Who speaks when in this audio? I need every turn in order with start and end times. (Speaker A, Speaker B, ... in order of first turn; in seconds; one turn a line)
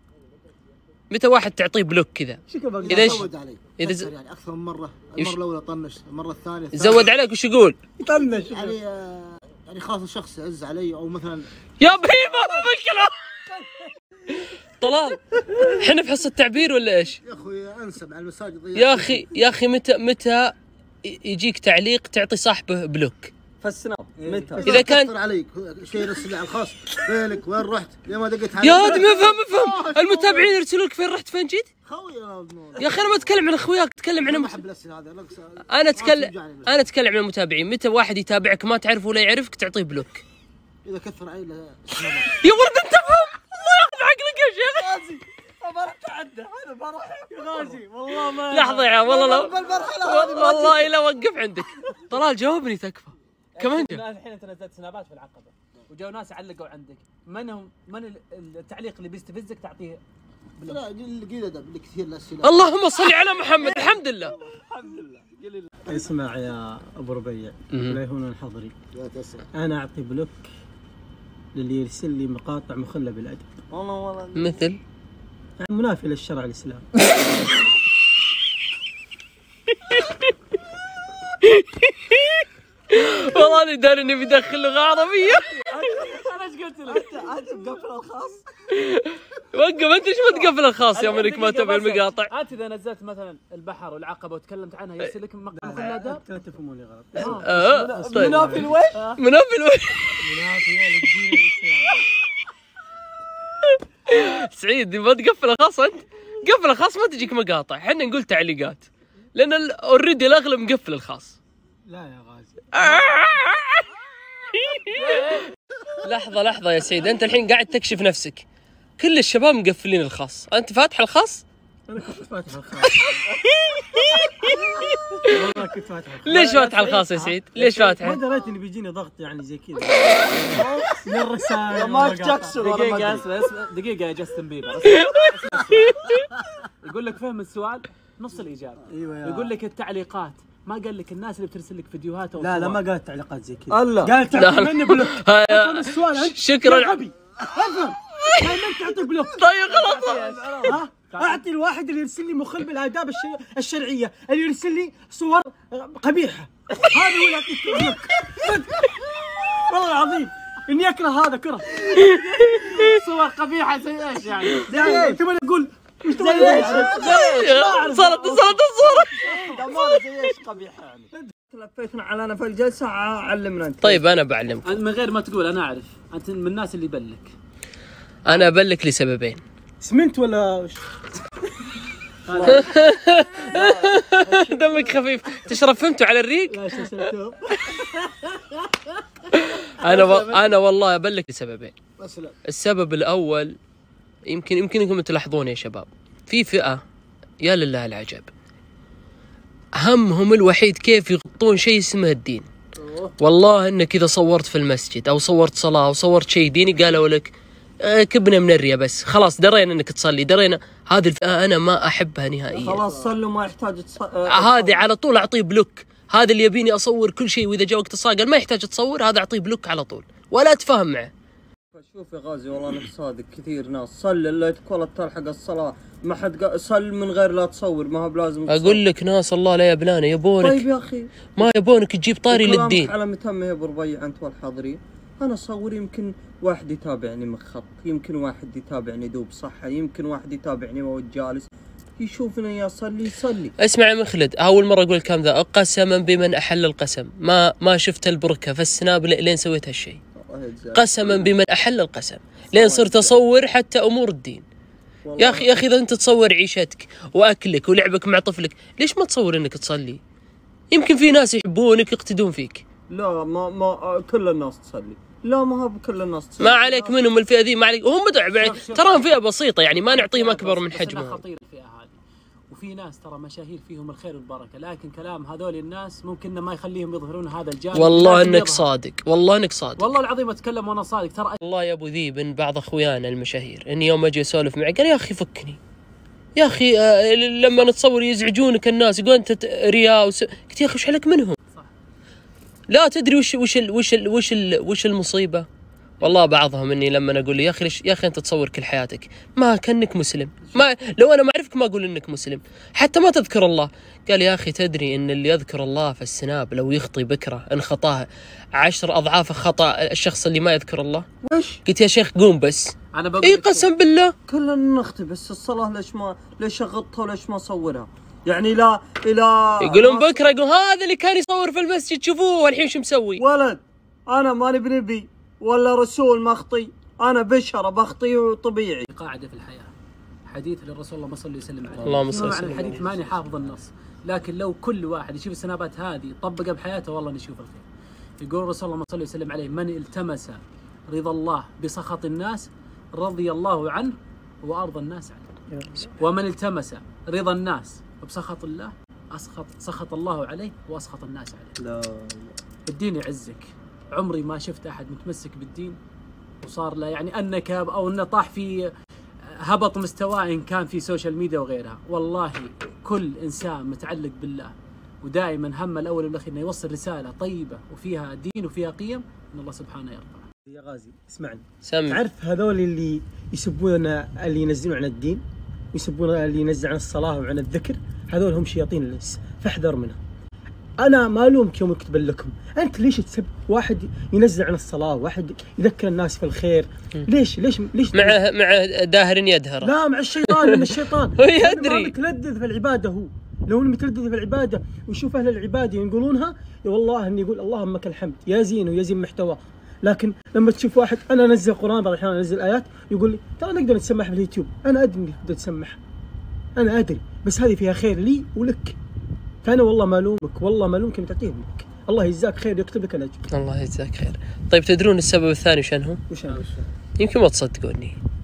Speaker A: 1.1-4.1
Speaker B: 2.5-3.2
Speaker C: 2.9-7.1
Speaker A: 6.7-7.8
Speaker B: 8.0-8.8
Speaker C: 8.4-11.5
Speaker A: 11.8-13.5
Speaker A: 14.4-17.2
Speaker C: 17.2-19.3
Speaker A: 18.7-23.3
Speaker D: 23.6-24.8
Speaker C: 24.2-30.6
Speaker A: 24.6-25.1
Speaker A: 28.6-31.7
Speaker C: 31.8-33.3
Speaker A: 32.8-34.6
Speaker C: 34.2-36.7
Speaker A: 35.7-40.2
Speaker C: 40.8-42.3
Speaker A: 42.4-44.9
Speaker D: 44.7-50.9
Speaker B: 47.4-48.3
Speaker A: 48.5-54.0
Speaker C: 49.4-49.9
Speaker E: 53.5-60.0
Speaker C: 60.6-62.8
Speaker A: 62.4-64.4
Speaker C: 63.5-66.1
Speaker B: 65.8-68.7
Speaker A: 67.7-68.0
Speaker C: 68.9-69.5
Speaker B: 69.5-70.5
Speaker B: 71.5-73.5
Speaker D: 73.7-74.7
Speaker A: 74.3-74.8
Speaker B: 75.6-76.8
Speaker A: 79.9-80.2
Speaker A: 81.4-85.5
Speaker E: 85.2-87.1
Speaker D: 85.7-86.2
Speaker D: 86.8-88.4
Speaker A: 88.7-92.3
Speaker E: 90.9-96.2
Speaker B: 95.5-98.8
Speaker E: 97.2-99.2
Speaker A: 97.2-98.6
Speaker A: 99.2-100.4
Speaker B: 100.2-102.1
Speaker A: 103.7-111.4
Speaker B: 111.9-113.2
Speaker A: 112.8-113.9
Speaker A: 114.5-115.3
Speaker B: 115.0-115.4
Speaker A: 116.0-118.4
Speaker A: 119.0-121.4
Speaker B: 121.9-123.2
Speaker A: 123.0-125.2
Speaker B: 125.3-133.1
Speaker A: 126.2-128.2
Speaker D: 130.4-131.1
Speaker D: 131.7-133.2
Speaker E: 132.6-142.8
Speaker A: 134.8-135.2
Speaker A: 135.7-136.2
Speaker B: 138.9-139.5
Speaker B: 142.4-149.4
Speaker D: 143.7-144.1
Speaker A: 144.3-147.0
Speaker A: 149.3-150.5
Speaker E: 149.7-151.4
Speaker B: 150.6-158.9
Speaker B: 159.5-162.6
Speaker A: 162.0-162.9
Speaker E: 162.6-164.9
Speaker B: 164.7-169.7
Speaker D: 164.7-165.1
Speaker D: 166.2-167.4
Speaker E: 166.4-166.8
Speaker A: 166.7-169.1
Speaker D: 169.2-174.0
Speaker A: 173.8-174.8
Speaker E: 174.6-177.3
Speaker A: 178.2-179.4
Speaker E: 178.3-178.5
Speaker B: 179.8-180.8
Speaker E: 182.2-182.7
Speaker D: 182.3-182.7
Speaker A: 182.4-186.9
Speaker B: 186.5-187.2
Speaker A: 189.3-191.7
Speaker C: 189.8-190.5
Speaker C: 192.0-192.3
Speaker A: 192.5-193.6
Speaker A: 194.2-196.8
Speaker A: 197.4-198.3
Speaker A: 199.8-202.4
Speaker A: 203.2-212.8
Speaker D: 212.5-214.8
Speaker A: 214.3-221.1
Speaker D: 221.7-228.8
Speaker A: 228.5-230.7
Speaker D: 230.4-231.5
Speaker A: 231.3-232.9
Speaker D: 232.3-243.5
Speaker A: 243.6-250.0
Speaker D: 250.2-251.3
Speaker A: 250.7-254.4
Speaker D: 252.5-253.2
Speaker D: 255.0-255.5
Speaker A: 255.2-260.0
Speaker A: 260.7-262.6
Speaker D: 262.9-266.9
Speaker A: 266.4-271.2
Speaker E: 268.3-269.2
Speaker E: 269.9-272.0
Speaker E: 272.5-278.7
Speaker A: 277.7-279.9
Speaker E: 279.8-281.4
Speaker A: 281.4-285.6
Speaker A: 286.4-291.4
Speaker A: 292.7-295.4
Speaker A: 296.0-311.1
Speaker D: 311.2-311.6
Speaker A: 311.6-314.1
Speaker E: 312.9-313.7
Speaker D: 314.3-320.2
Speaker A: 319.6-323.2
Speaker D: 323.2-328.9
Speaker E: 328.9-329.7
Speaker E: 330.3-337.6
Speaker A: 331.8-332.8
Speaker D: 332.1-332.9
Speaker E: 338.2-345.3
Speaker B: 345.5-345.9
Speaker E: 345.9-351.6
Speaker D: 351.6-352.3
Speaker E: 352.7-355.8
Speaker E: 356.4-358.7
Speaker E: 359.4-370.3
Speaker B: 370.5-375.2
Speaker A: 371.6-372.0
Speaker B: 375.7-380.0
Speaker B: 380.8-388.2
Speaker A: 387.9-389.7
Speaker B: 389.6-405.8
Speaker A: 390.3-391.9
Speaker B: 406.6-408.8
Speaker B: 409.4-413.3
Speaker A: 413.3-416.0
Speaker B: 416.1-416.4
Speaker E: 416.3-416.6
Speaker A: 417.0-417.9